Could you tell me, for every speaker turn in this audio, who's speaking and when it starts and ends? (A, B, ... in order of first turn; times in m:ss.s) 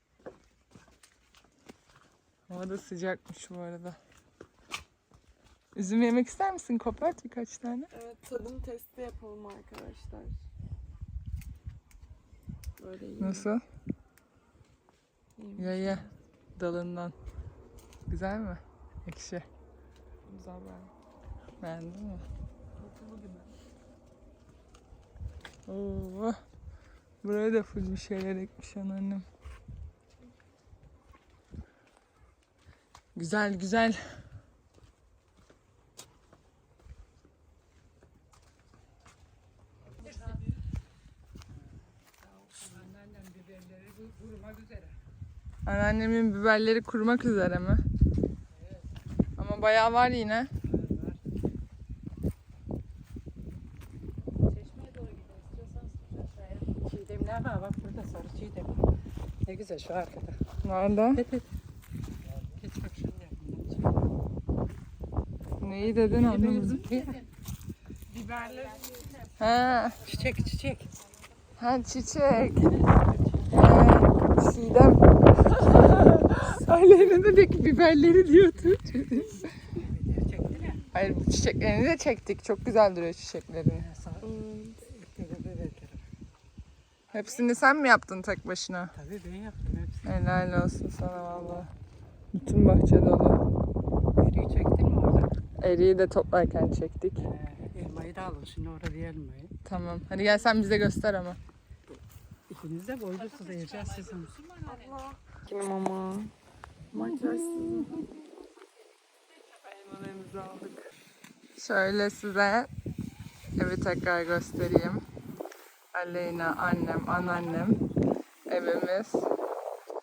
0:02.5-0:04.0 A
0:05.8-0:07.9 A
0:07.9-0:10.4 B
0:12.8-0:13.5 B
0:13.2-0:13.6 A
0:15.4-0:16.1 B
0:15.6-0:17.1 A
0:18.1-0:19.4 A
0:20.3-0:20.9 B
0:21.6-0:22.2 A
0:22.8-0:23.5 B
0:25.7-0:26.4 A
0:27.2-0:29.3 A
0:33.2-0:34.0 A
0:42.4-0:45.0 C
0:45.7-0:47.8 A
0:49.4-0:50.5 A
0:50.7-0:51.2 C
0:56.6-0:58.9 C
0:59.4-1:00.4 C
1:00.6-1:01.2 A
1:01.2-1:01.5 C
1:02.6-1:04.1 C
1:05.6-1:06.9 A
1:05.8-1:07.3 C
1:08.1-1:09.1 B
1:08.3-1:09.0 C
1:09.4-1:10.0 A
1:10.0-1:10.9 C
1:11.6-1:12.7 A
1:12.5-1:13.7 C
1:13.5-1:19.5 A
1:19.8-1:21.0 C
1:20.9-1:23.8 A
1:23.7-1:26.0 C
1:24.2-1:24.8 B
1:27.1-1:28.9 A
1:28.9-1:30.1 C
1:30.0-1:31.7 A
1:32.3-1:33.4 A
1:34.2-1:35.3 C
1:35.6-1:37.2 A
1:37.2-1:39.5 C
1:39.6-1:41.4 A
1:42.5-1:44.4 C
1:44.6-1:46.3 B
1:46.9-1:48.2 B
1:46.9-1:48.0 A
1:49.7-1:50.7 B
1:50.2-1:50.7 A
1:51.6-1:52.7 A
1:53.6-1:55.0 A
1:55.9-1:57.8 A
1:58.5-1:59.3 A